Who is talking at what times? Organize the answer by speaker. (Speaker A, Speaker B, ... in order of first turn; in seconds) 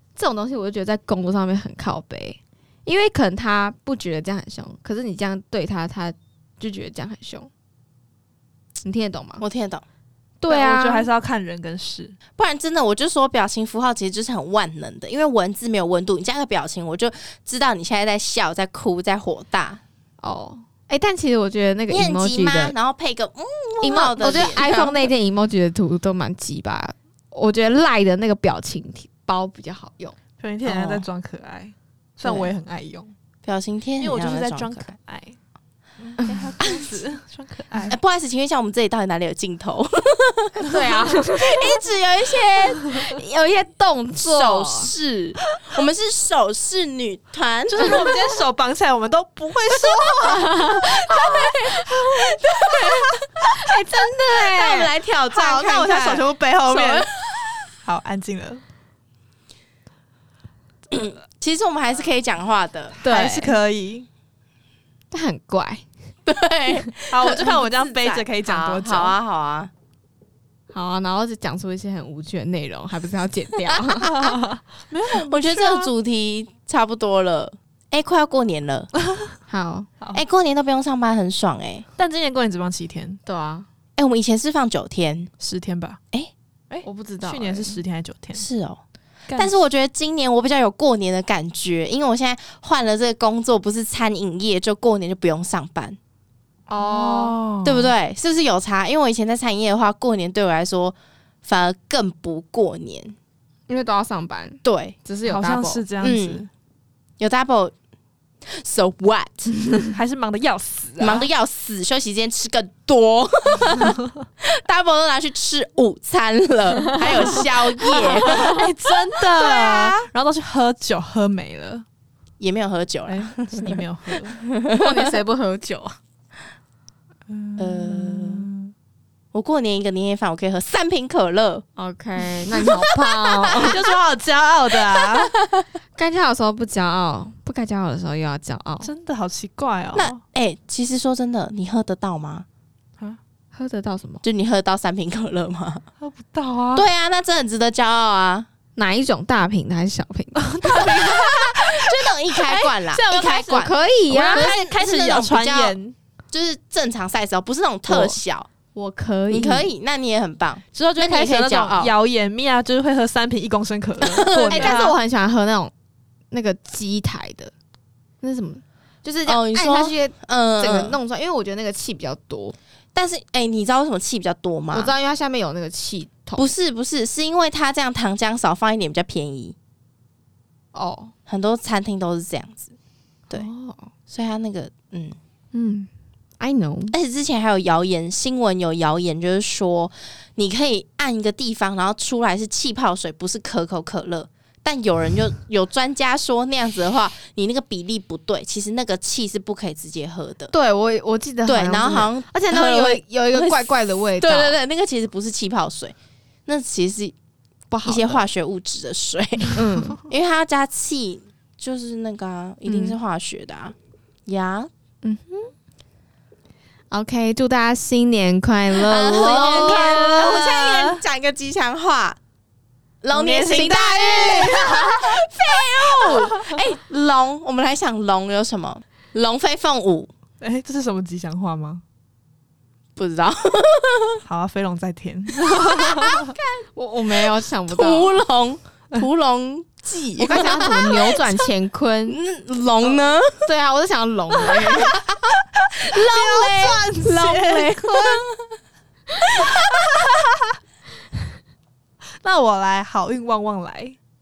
Speaker A: 0.1-7.5, 8.8-9.4, 10.4-11.1, 20.2-22.7, 23.8-30.1, 40.6-41.8, 42.8-44.9, 50.1-52.8, 53.4-54.9, 63.0-63.6, 65.1-65.8, 70.7-74.1, 79.5-79.9, 83.2-83.7, 86.8-87.8, 96.7-97.4, 103.7-105.8, 124.7-125.9, 131.8-133.8, 135.9-138.9, 143.5-144.2, 148.8-151.0, 153.3-154.5, 157.9-158.2, 158.7-159.7, 164.5-165.7, 166.3-167.5, 168.2-172.6, 174.7-176.5, 180.7-181.1, 183.3-183.9, 185.5-185.9, 186.4-186.9, 200.5-204.6, 207.7-208.2, 209.5-210.0, 212.7-213.0, 215.0-215.5, 216.9-220.2, 236.7-238.2, 240.2-242.2, 243.4-245.0
Speaker B: 9.4-9.8, 12.4-19.8, 21.9-25.1, 30.6-31.1, 32.2-32.5, 33.4-34.9, 36.6-36.9, 37.9-43.0, 44.2-48.2, 51.1-51.5, 52.1-53.1, 54.4-57.6, 60.9-63.0, 66.2-69.7, 73.7-74.4, 75.3-78.9, 80.1-81.8, 84.0-85.3, 88.3-88.8, 89.3-96.0, 97.6-103.2, 104.6-105.0, 106.0-106.4, 107.2-107.7, 108.4-109.5, 111.0-120.1, 122.4-125.0, 127.6-128.5, 129.3-131.6, 132.9-133.9, 134.9-135.6, 139.9-142.4, 144.2-145.8, 146.7-148.5, 150.8-155.8, 156.3-158.5, 159.3-161.9, 164.0-164.8, 169.2-171.0, 172.9-174.9, 176.3-179.5, 181.3-182.7, 184.1-185.2, 186.9-200.5, 201.4-205.9, 206.4-207.1, 207.8-213.7, 214.2-214.7, 218.7-222.2, 223.0-230.1, 232.9-234.2, 235.4-236.6, 237.7-241.2, 242.1-243.5, 245.8-248.6, 249.3-250.0
Speaker C: 10.5-12.2, 30.4-33.1, 34.0-35.4, 36.0-38.0, 47.7-51.5, 55.3-57.1, 57.8-58.6, 63.0-64.1, 67.1-69.2, 74.0-75.9, 82.0-83.2, 85.4-86.0, 86.7-88.4, 89.3-89.6, 96.7-97.9, 105.2-106.5, 109.9-111.3, 117.3-121.8, 123.1-124.4, 127.3-128.7, 133.7-135.3, 138.8-140.2, 146.0-146.8, 150.3-155.9, 160.7-165.0, 219.3-221.0, 223.1-225.2, 226.0-226.3, 230.4-231.8, 234.2-236.3, 245.6-248.2, 252.2-254.0